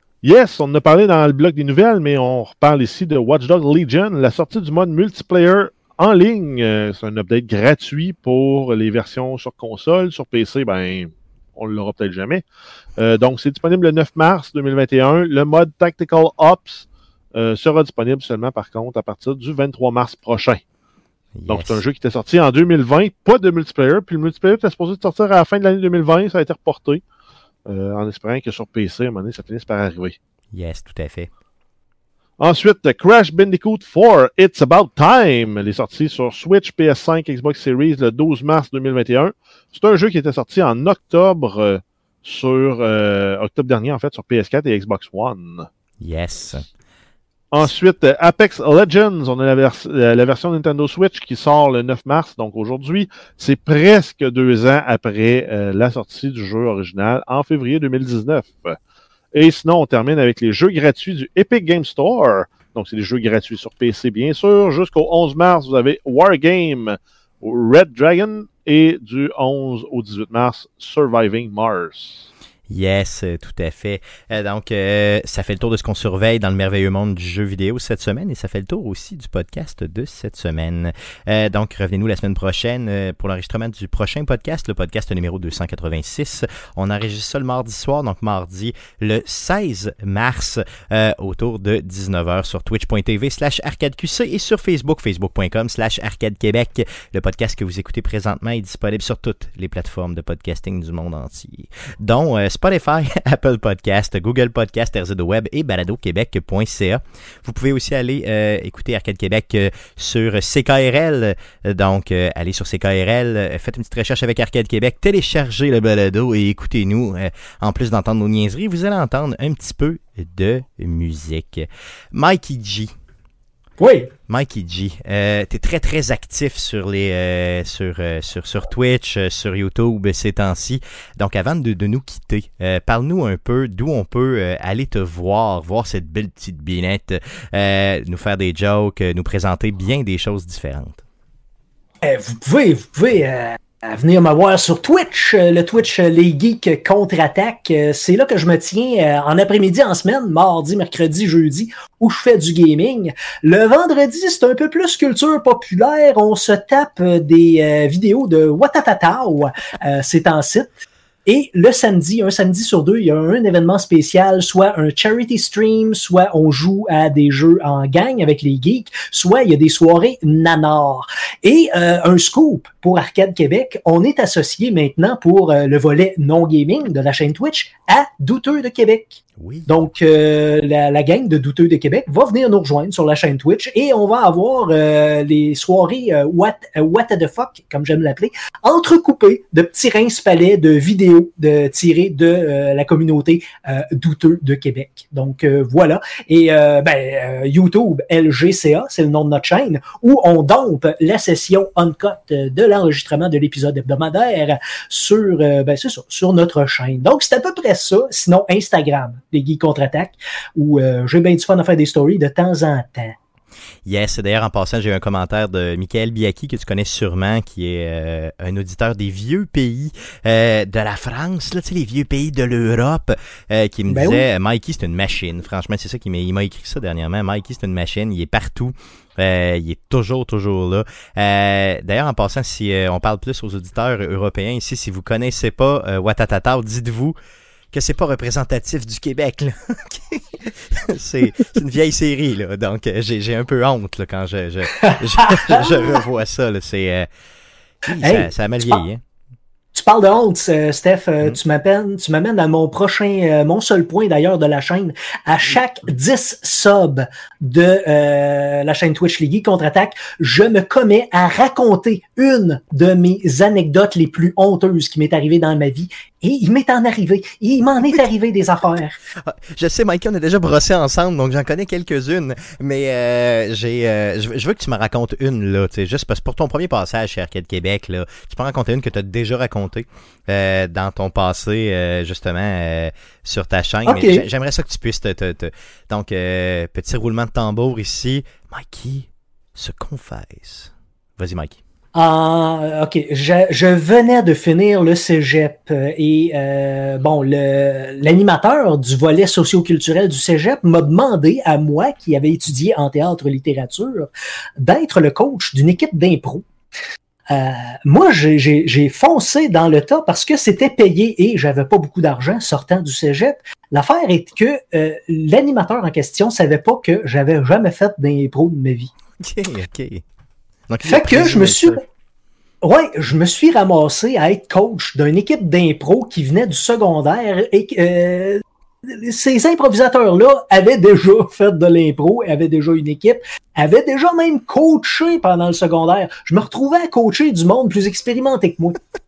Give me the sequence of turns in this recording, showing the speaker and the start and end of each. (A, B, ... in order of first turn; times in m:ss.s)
0:00.2-0:12.4 A
0:13.0-0:20.6 A
0:21.4-0:21.8 B
0:21.5-0:27.0 A
0:27.7-0:30.2 A
0:30.5-0:31.3 B
0:32.4-0:45.7 A
0:46.0-0:46.7 B
0:47.5-0:58.8 A
0:59.3-1:12.3 A
1:12.7-2:02.9 B
2:03.8-2:04.1 C
2:04.3-2:21.0 B
2:22.0-3:33.2 C
2:59.4-2:59.7 B
3:33.9-3:57.2 B
3:43.9-3:44.3 C
3:57.7-4:07.1 B
4:04.8-4:06.0 C
4:07.9-4:09.0 B
4:08.0-4:08.8 C
4:09.8-4:29.0 C
4:29.2-4:51.6 B
4:43.9-4:44.3 C
4:52.0-5:06.4 C
5:07.3-5:18.9 C
5:19.2-5:20.0 B
5:20.7-5:21.8 B
5:20.8-5:21.8 C
5:22.6-5:38.8 C